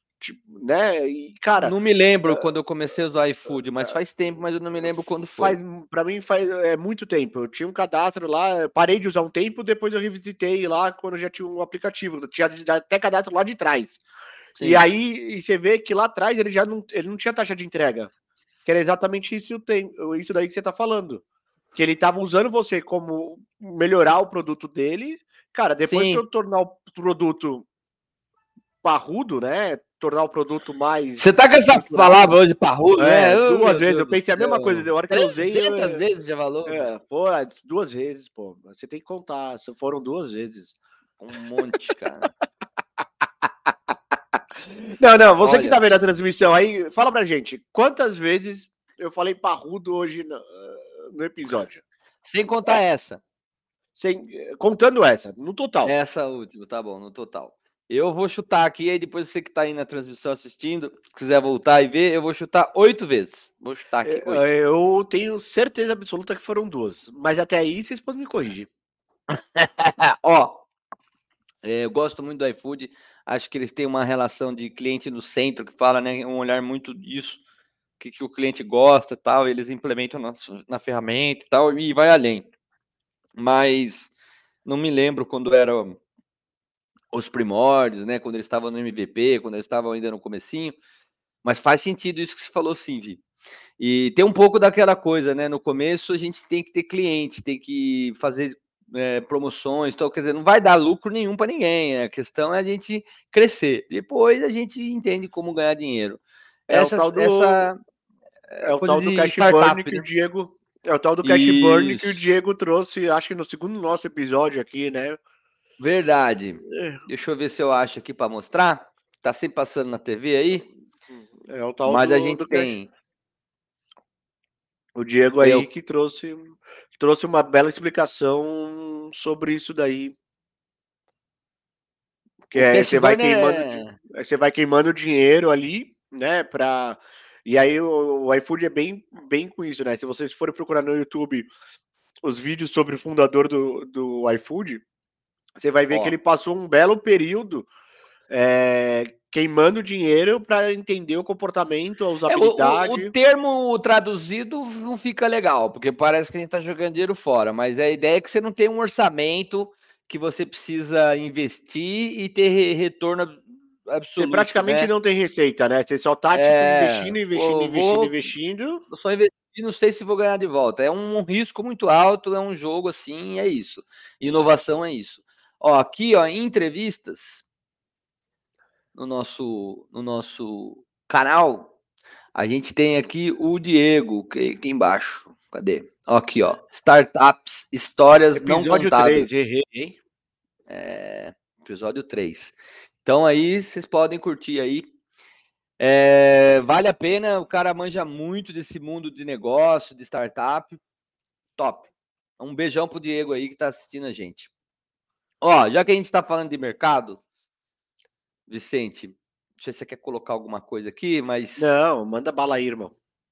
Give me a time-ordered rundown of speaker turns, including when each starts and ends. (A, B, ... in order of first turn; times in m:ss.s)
0:00.2-0:01.8 A
0:01.6-0:05.6 B
0:05.4-0:14.0 A
0:14.6-0:14.8 B
0:14.6-0:18.1 A
0:18.6-0:21.2 A
0:21.8-0:27.6 A
0:25.8-0:26.2 B
0:28.8-0:32.4 A
0:31.2-0:36.9 B
0:33.0-0:36.0 A
0:36.7-0:40.8 A
0:41.2-0:42.3 B
0:43.4-0:51.8 A
0:45.4-0:45.8 B
0:52.2-0:53.2 B
0:54.0-0:55.9 A
0:55.8-1:04.5 B
1:04.0-1:08.7 A
1:09.3-1:10.6 B
1:11.6-1:17.4 B
1:18.0-1:22.5 B
1:23.4-1:24.1 B
1:24.6-1:26.0 B
1:27.1-1:30.8 B
1:31.4-1:33.2 B
1:33.8-1:47.8 B
1:46.7-1:47.7 A
1:48.5-1:50.0 B
1:48.6-1:55.2 A
1:51.2-1:52.1 B
1:55.8-2:00.6 B
1:56.7-1:57.0 A
2:01.1-2:02.7 A
2:01.8-2:02.9 B
2:05.0-2:10.1 A
2:05.4-2:05.7 B
2:12.5-2:21.5 A
2:12.5-2:14.0 B
2:22.2-2:24.8 A
2:25.6-2:27.7 A
2:25.9-2:26.1 B
2:28.3-2:33.1 A
2:32.3-2:44.9 B
2:44.2-2:48.8 A
2:46.3-2:48.3 B
2:48.9-2:57.4 B
2:59.0-3:01.7 B
3:02.4-3:09.3 B
3:08.4-3:10.0 A
3:10.7-3:14.9 B
3:15.8-3:20.8 B
3:21.6-3:21.9 B
3:22.4-3:24.5 B
3:25.4-3:27.2 B
3:28.5-3:31.8 B
3:31.6-3:32.9 A